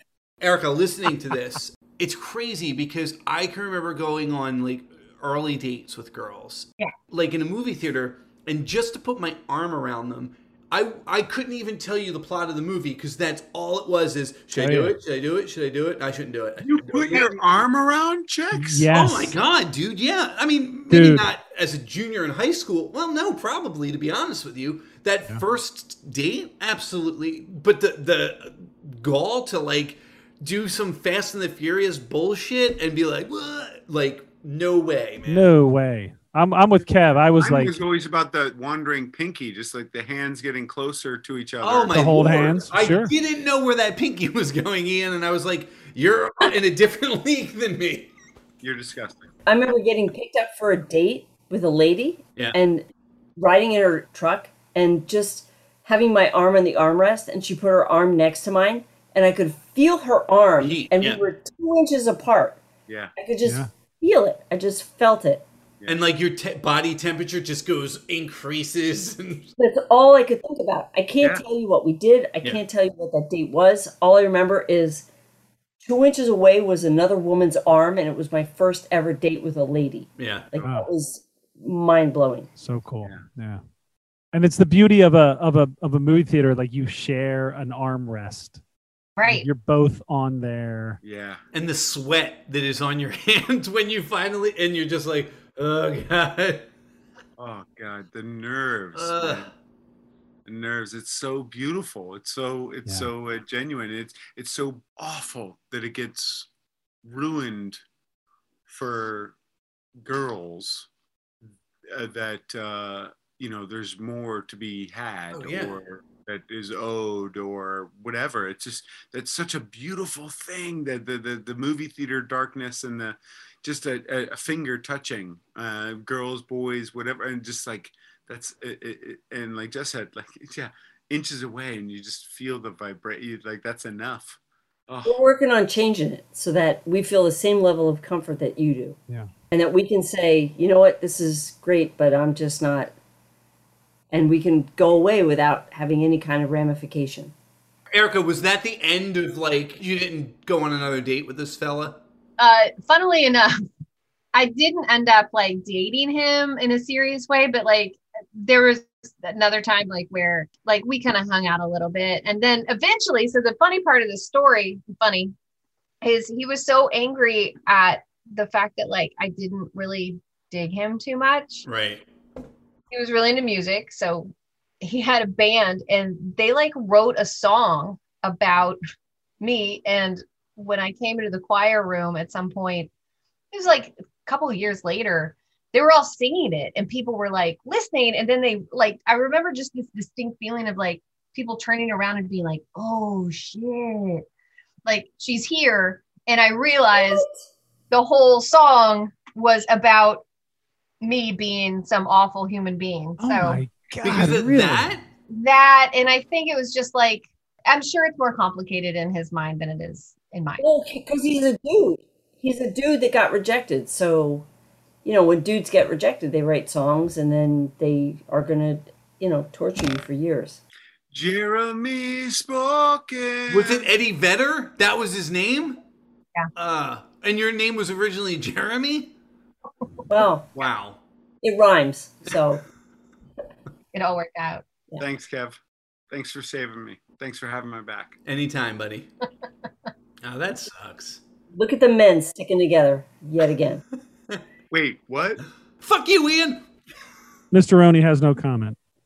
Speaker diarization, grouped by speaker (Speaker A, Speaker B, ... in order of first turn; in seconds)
Speaker A: 0.4-17.3, 18.9-35.5, 41.6-48.1, 60.6-61.2, 65.9-69.5, 80.2-80.5, 91.5-96.7, 99.0-99.5, 115.3-115.8, 147.9-152.0, 171.7-172.1, 204.0-205.0, 223.5-225.8, 226.6-229.1, 230.6-231.0, 238.3-239.1, 240.2-241.2, 245.8-246.7
Speaker B: 14.6-15.0, 18.5-19.4, 20.9-21.3, 35.3-37.8, 41.9-43.1, 63.4-63.7, 80.6-80.9, 82.6-83.6, 84.3-88.6, 89.3-91.0, 203.2-204.9, 247.5-248.8
Speaker C: 16.6-18.9, 37.4-42.7, 48.6-49.3, 91.0-91.4, 97.4-99.5, 100.5-106.5, 107.0-107.8, 108.7-109.4, 110.0-110.9, 111.9-135.2, 221.1-223.9, 235.0-235.6, 236.1-238.1, 244.7-245.4
Speaker D: 49.5-52.9, 53.4-62.6, 63.2-65.5, 69.6-75.1, 75.8-82.5, 135.1-139.0, 139.5-142.9, 144.1-147.3, 196.9-197.5, 210.6-214.5, 215.1-220.6, 230.1-230.6, 231.4-232.6, 241.5-243.8
Speaker E: 89.2-89.5, 152.4-153.6, 154.3-165.3, 166.0-171.7, 172.9-178.8, 179.4-182.9, 183.5-194.2, 194.9-197.3, 197.9-200.2, 201.0-203.6, 205.3-210.6, 233.9-234.7